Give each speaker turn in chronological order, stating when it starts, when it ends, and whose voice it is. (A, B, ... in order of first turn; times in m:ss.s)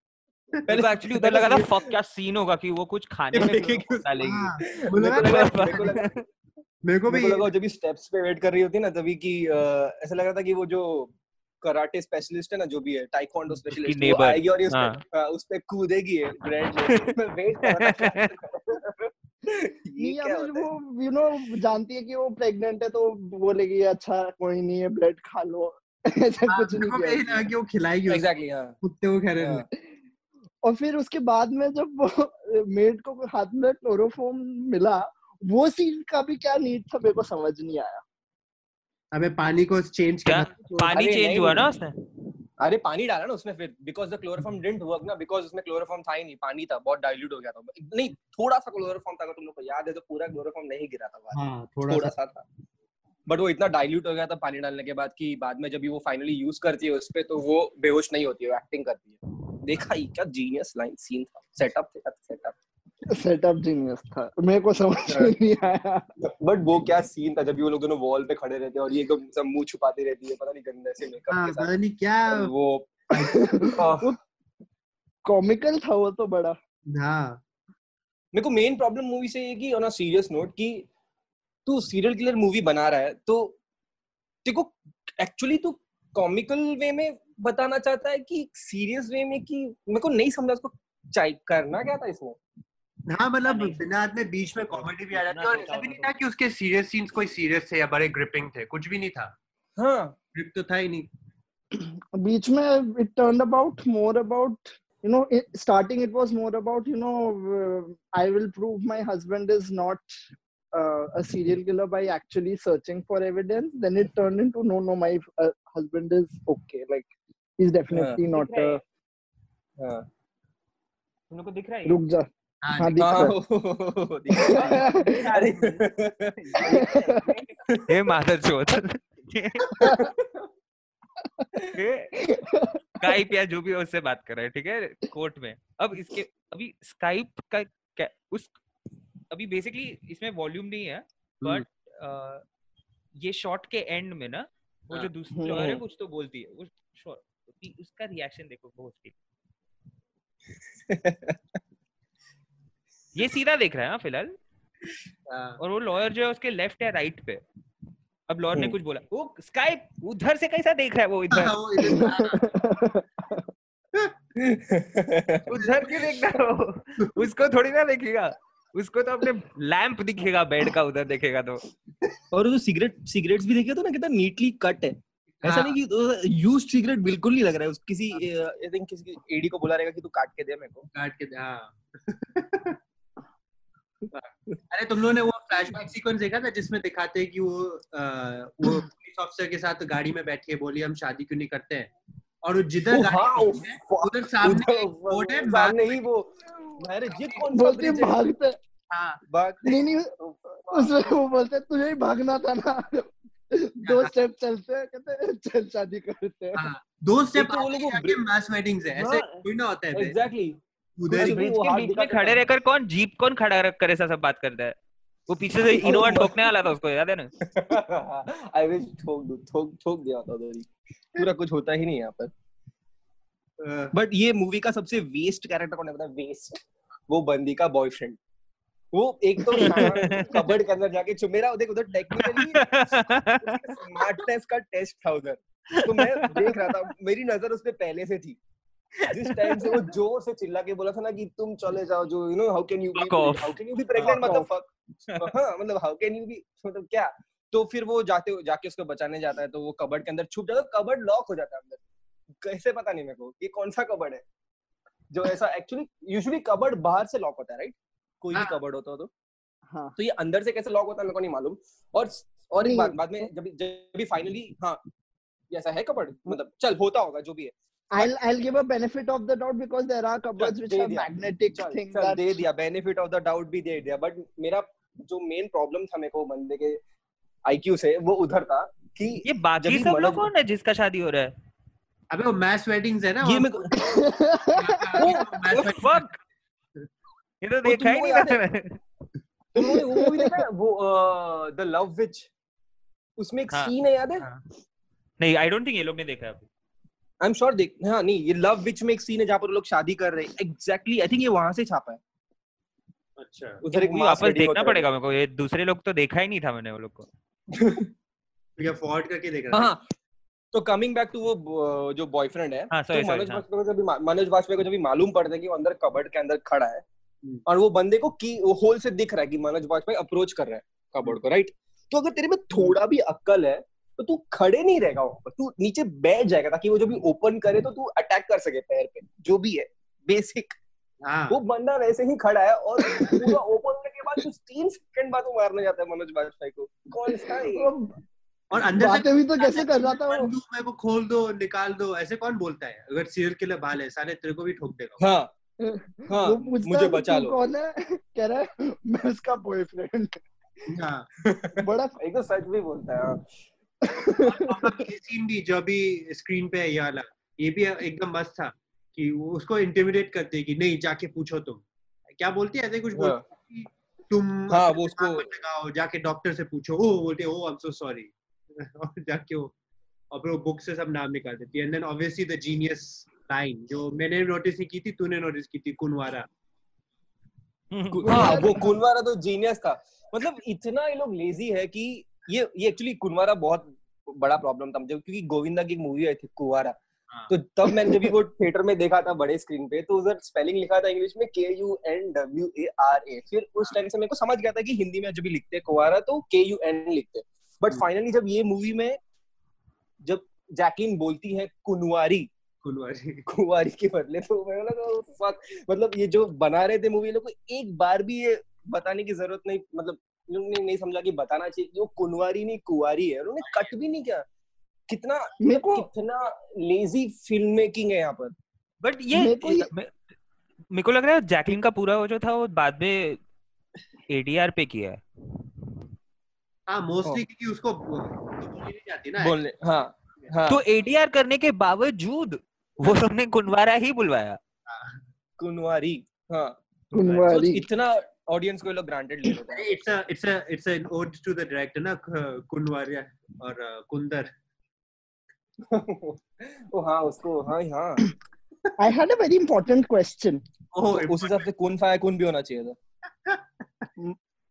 0:00.7-0:01.9 A
0:00.7-0:06.2 B
0:03.3-0:06.2 A
0:04.2-0:05.9 C
0:06.8-0:07.5 C
0:07.1-0:20.7 A
0:13.6-0:15.0 B
0:16.8-0:18.3 B
0:20.0-0:27.5 D
0:26.5-0:28.3 C
0:28.1-0:28.8 A
0:28.8-0:29.7 C
0:29.4-0:29.7 A
0:30.6-0:38.0 D
0:39.1-0:41.0 C
0:40.2-0:42.0 B
0:40.9-0:41.6 A
0:42.6-0:52.4 A
0:51.3-0:52.1 C
0:53.3-1:02.6 A
1:03.1-1:06.1 D
1:06.2-1:11.7 A
1:11.3-1:12.5 C
1:12.3-1:12.9 A
1:13.1-1:13.6 C
1:13.2-1:14.1 D
1:13.6-1:14.2 A
1:15.3-1:16.6 D
1:16.9-1:17.4 C
1:18.3-1:20.9 A
1:21.7-1:23.6 A
1:24.4-1:32.4 A
1:33.1-1:39.3 C
1:33.4-1:33.9 B
1:34.5-1:36.1 B
1:39.8-1:40.2 A
1:40.3-1:41.1 C
1:41.8-1:50.0 D
1:50.7-1:58.8 D
1:57.9-1:58.2 A
1:58.3-1:58.8 B
1:59.8-2:00.1 A
2:01.3-2:02.0 B
2:01.9-2:03.4 D
2:02.6-2:03.0 C
2:03.0-2:06.9 A
2:04.4-2:05.2 D
2:04.5-2:09.9 B
2:06.7-2:07.3 D
2:07.7-2:08.1 A
2:09.7-2:10.5 A
2:09.8-2:10.1 D
2:11.7-2:12.2 B
2:12.2-2:12.8 D
2:13.0-2:18.6 B
2:19.3-2:22.4 B
2:23.2-2:29.1 B
2:24.9-2:25.8 A
2:25.3-2:25.6 D
2:30.9-2:31.4 A
2:33.2-2:34.3 B
2:35.3-2:35.6 C
2:35.6-2:37.4 B
2:38.3-2:42.0 B
2:41.3-2:42.5 C
2:41.8-2:43.4 D
2:44.4-2:45.6 A
2:45.5-2:51.6 B
2:45.6-2:46.2 C
2:47.0-2:47.3 C
2:52.3-3:00.9 A
2:55.4-2:55.8 C
3:00.9-3:02.8 C
3:04.1-3:11.9 C
3:12.4-3:16.0 C
3:12.9-3:18.2 A
3:17.1-3:17.4 C
3:17.5-3:18.6 D
3:18.9-3:19.2 C
3:19.3-3:21.0 A
3:19.6-3:20.1 D
3:20.7-3:26.6 D
3:23.8-3:24.1 C
3:26.6-3:30.2 C
3:27.4-3:28.2 A
3:29.0-3:32.4 A
3:31.0-3:31.4 C
3:31.1-3:34.8 B
3:35.3-3:37.3 B
3:35.6-3:36.5 A
3:37.4-3:42.3 A
3:43.6-3:43.9 C
3:43.9-3:48.2 A
3:48.9-3:58.4 A
3:49.5-3:50.6 B
3:52.1-3:54.0 B
3:55.7-3:56.8 B
3:59.0-4:11.8 A
3:59.1-3:59.9 B
4:03.0-4:04.4 B
4:04.2-4:04.4 D
4:12.4-4:14.2 A
4:15.1-4:19.1 A
4:18.3-4:18.6 C
4:19.7-4:20.0 D
4:20.0-4:24.8 A
4:22.6-4:23.0 D
4:25.5-4:28.1 A
4:27.9-4:32.2 D
4:30.4-4:36.8 A
4:37.5-4:40.2 A
4:39.2-4:41.3 B
4:42.1-4:43.8 C
4:43.2-4:43.7 A
4:43.7-4:45.0 D
4:44.5-4:46.0 C
4:45.0-4:45.8 A
4:45.6-4:46.2 B
4:47.4-4:48.8 B
4:47.6-4:48.4 A
4:49.5-4:52.3 A
4:49.6-4:50.3 D
4:53.2-4:54.3 A
4:55.2-4:56.5 B
4:57.2-5:02.0 A
5:03.2-5:03.6 C
5:03.6-5:04.9 A
5:03.7-5:07.1 B
5:07.5-5:07.9 A
5:08.6-5:09.7 C
5:09.5-5:09.8 A
5:10.5-5:16.8 A
5:12.7-5:13.4 B
5:17.5-5:30.6 A
5:31.0-5:31.4 C
5:31.3-5:37.7 A
5:32.9-5:33.2 D
5:37.3-5:38.0 D
5:38.5-5:45.0 C
5:38.8-5:40.3 D
5:45.0-5:45.3 A
5:45.6-5:50.2 D
5:46.1-5:47.4 A
5:50.7-5:51.1 C
5:51.2-5:53.2 A
5:51.6-5:52.0 D
5:53.8-5:54.6 D
5:54.2-6:09.5 C
6:03.0-6:03.2 A
6:04.5-6:05.3 A
6:10.1-6:16.3 C
6:17.7-6:18.4 B
6:17.9-6:26.8 A
6:18.0-6:18.7 D
6:27.3-6:39.0 A
6:40.0-6:42.3 A
6:42.6-6:43.2 C
6:43.3-6:54.2 A
6:54.9-6:58.3 A
6:55.4-6:55.9 D
6:58.8-6:59.9 B
6:59.1-6:59.7 D
7:00.7-7:03.2 B
7:04.1-7:05.0 B
7:06.7-7:09.4 C
7:09.2-7:10.6 A
7:10.5-7:14.4 B
7:14.7-7:15.0 C
7:15.4-7:19.8 A
7:16.9-7:17.7 D
7:19.5-7:24.3 C
7:25.7-7:28.0 A
7:28.8-7:30.4 D
7:30.7-7:31.5 C
7:30.9-7:32.8 A